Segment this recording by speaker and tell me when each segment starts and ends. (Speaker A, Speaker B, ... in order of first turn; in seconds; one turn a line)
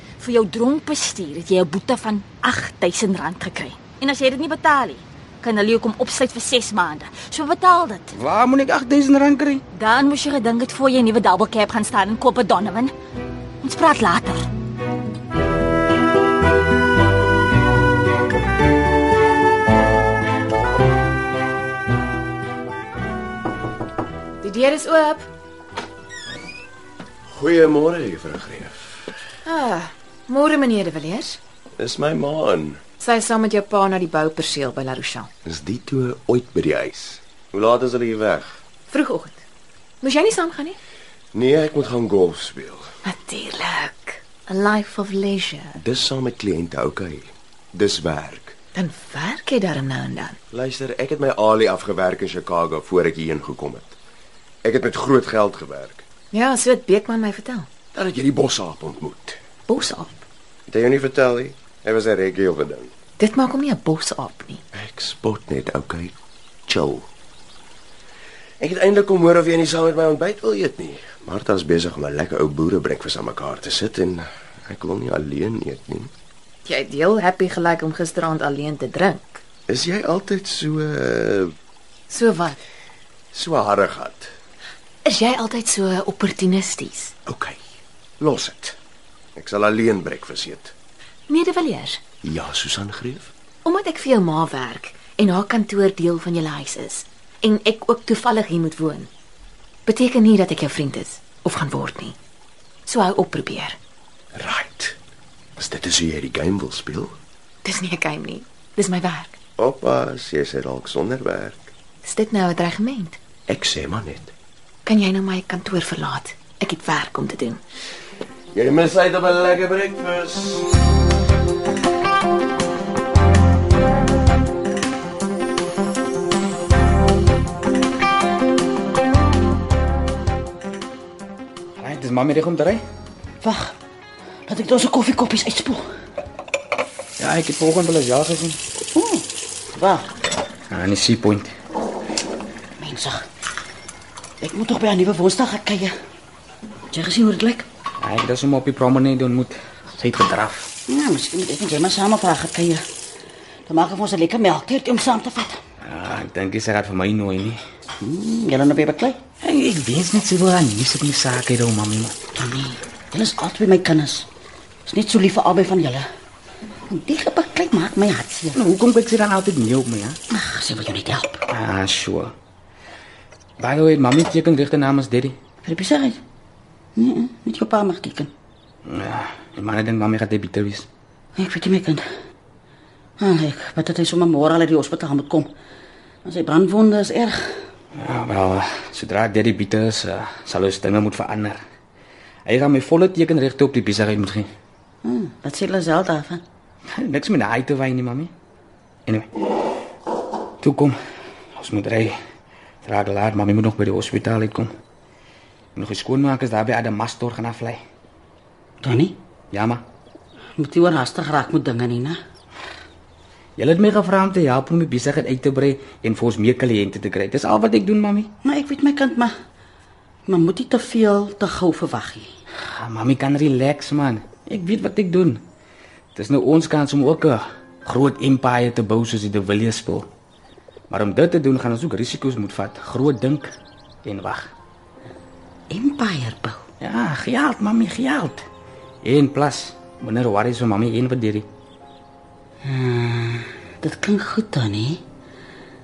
Speaker A: 0.2-8.1
Speaker B: 8.1-9.6
Speaker A: 9.7-12.9
Speaker A: 13.6-14.4
Speaker C: 24.4-25.3
Speaker D: 27.3-29.0
Speaker C: 29.4-31.4
Speaker D: 31.8-32.8
Speaker C: 33.0-35.3
Speaker D: 35.4-38.5
Speaker C: 38.9-39.4
Speaker C: 40.0-40.8
Speaker D: 41.3-42.9
Speaker C: 43.0-45.8
Speaker D: 45.8-48.5
Speaker C: 48.7-50.4
Speaker D: 50.5-54.0
Speaker D: 54.6-56.0
Speaker C: 56.3-57.7
Speaker D: 57.9-59.4
Speaker C: 59.7-60.2
Speaker D: 60.7-62.9
Speaker C: 63.2-64.6
Speaker D: 64.7-66.1
Speaker D: 66.7-67.1
Speaker D: 68.6-76.1
Speaker C: 76.7-79.4
Speaker D: 79.7-81.5
Speaker C: 82.1-82.6
Speaker D: 83.3-84.3
Speaker C: 85.0-87.1
Speaker D: 87.2-87.6
Speaker D: 88.2-88.8
Speaker D: 89.3-90.7
Speaker C: 91.3-92.0
Speaker D: 92.2-93.3
Speaker C: 93.6-99.1
Speaker C: 99.9-102.2
Speaker C: 102.8-103.8
Speaker D: 104.3-105.0
Speaker D: 105.6-107.2
Speaker C: 107.6-109.3
Speaker D: 109.6-111.7
Speaker C: 112.0-113.2
Speaker D: 113.5-114.3
Speaker C: 114.8-117.6
Speaker D: 118.5-120.7
Speaker B: 131.8-132.8
Speaker E: 133.4-133.7
Speaker E: 134.5-135.8
Speaker B: 137.2-138.6
Speaker E: 138.9-140.1
Speaker B: 140.7-141.5
Speaker E: 142.8-143.2
Speaker E: 144.4-145.9
Speaker E: 146.9-147.7
Speaker B: 148.0-150.7
Speaker E: 150.9-152.8
Speaker E: 153.7-155.6
Speaker B: 155.8-157.6
Speaker E: 158.0-159.2
Speaker B: 159.4-162.1
Speaker E: 162.3-164.3
Speaker E: 164.8-166.0
Speaker E: 166.9-168.6
Speaker B: 168.5-170.2
Speaker E: 170.3-171.4
Speaker B: 171.5-172.3
Speaker B: 173.6-175.3
Speaker E: 175.6-176.2
Speaker E: 177.0-178.3
Speaker B: 178.8-180.9
Speaker E: 181.4-182.0
Speaker E: 183.2-185.5
Speaker E: 186.2-187.6
Speaker B: 187.9-191.6
Speaker B: 192.4-194.5
Speaker E: 195.0-196.4
Speaker B: 196.9-198.3
Speaker B: 200.6-200.9
Speaker B: 201.6-202.1
Speaker B: 202.8-204.7
Speaker B: 205.7-207.8
Speaker E: 208.8-209.2
Speaker B: 209.5-209.8
Speaker E: 210.6-212.2
Speaker B: 213.6-218.3
Speaker E: 218.4-219.3
Speaker E: 220.3-222.3
Speaker B: 222.7-225.4
Speaker B: 226.1-230.1
Speaker B: 230.9-233.5
Speaker B: 234.0-234.5
Speaker E: 235.7-236.6
Speaker B: 236.8-238.4
Speaker B: 239.0-241.4
Speaker E: 242.6-245.0